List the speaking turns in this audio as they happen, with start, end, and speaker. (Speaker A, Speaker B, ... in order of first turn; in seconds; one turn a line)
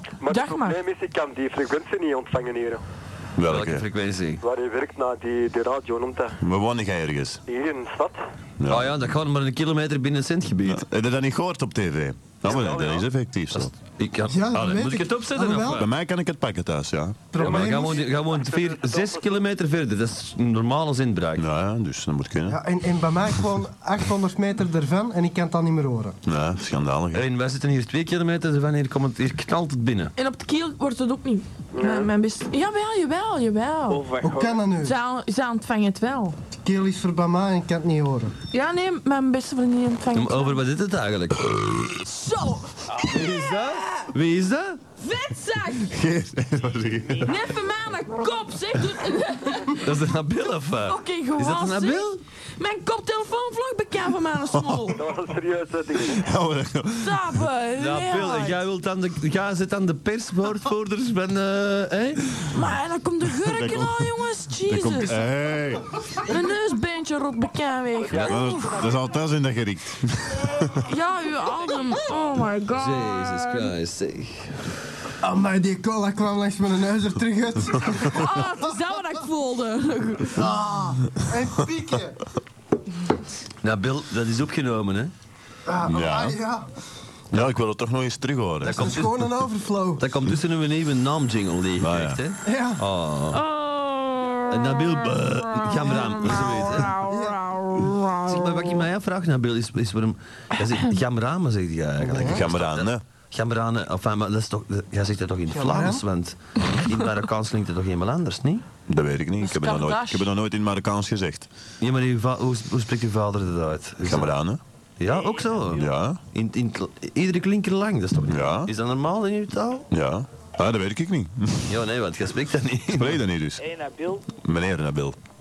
Speaker A: 0.2-2.8
Speaker B: 0.3-0.8
Speaker C: 3.4-3.8
Speaker D: 3.5-4.4
Speaker A: 4.4-6.3
Speaker C: 6.4-7.4
Speaker A: 7.5-8.2
Speaker C: 8.6-8.9
Speaker D: 8.7-10.8
Speaker C: 10.6-13.7
Speaker A: 12.4-13.1
Speaker D: 13.5-15.9
Speaker E: 14.3-15.8
Speaker C: 15.7-17.3
Speaker E: 17.3-18.1
Speaker D: 17.4-21.4
Speaker A: 17.4-19.2
Speaker C: 21.4-22.6
Speaker E: 22.4-26.1
Speaker C: 26.2-27.3
Speaker D: 27.1-30.1
Speaker B: 30.2-34.0
Speaker A: 31.7-32.1
Speaker F: 33.9-34.6
Speaker E: 34.2-35.0
Speaker B: 34.8-36.4
Speaker E: 36.6-38.3
Speaker B: 38.5-40.6
Speaker D: 40.1-41.5
Speaker B: 42.0-44.1
Speaker D: 43.1-44.8
Speaker B: 45.0-45.9
Speaker C: 45.9-47.3
Speaker B: 47.2-49.9
Speaker D: 49.8-52.2
Speaker B: 50.9-55.0
Speaker C: 54.5-55.0
Speaker A: 54.9-56.2
Speaker C: 56.0-57.4
Speaker B: 57.0-58.6
Speaker D: 57.8-62.2
Speaker B: 62.5-65.3
Speaker C: 63.3-64.1
Speaker C: 64.6-65.8
Speaker B: 66.2-68.8
Speaker A: 68.1-68.7
Speaker C: 68.2-70.8
Speaker B: 70.8-73.7
Speaker D: 72.8-74.6
Speaker E: 75.2-78.7
Speaker B: 78.0-80.4
Speaker E: 80.3-82.2
Speaker D: 83.6-85.1
Speaker E: 85.7-86.7
Speaker C: 85.8-86.4
Speaker C: 87.3-88.9
Speaker D: 88.6-89.4
Speaker E: 88.6-90.0
Speaker D: 90.0-93.4
Speaker C: 91.8-92.2
Speaker E: 92.4-92.8
Speaker B: 93.3-98.6
Speaker D: 94.5-96.9
Speaker E: 97.0-97.4
Speaker D: 98.2-108.6
Speaker E: 102.0-102.5
Speaker C: 102.2-103.0
Speaker E: 105.5-106.0
Speaker C: 108.9-111.5
Speaker B: 109.4-110.3
Speaker D: 111.8-114.3
Speaker C: 114.0-114.6
Speaker D: 115.0-119.8
Speaker F: 115.1-115.9
Speaker C: 115.7-116.2
Speaker C: 118.3-118.7
Speaker C: 119.9-121.7
Speaker D: 121.7-123.2
Speaker C: 122.9-123.6
Speaker F: 123.6-124.2
Speaker C: 124.3-125.2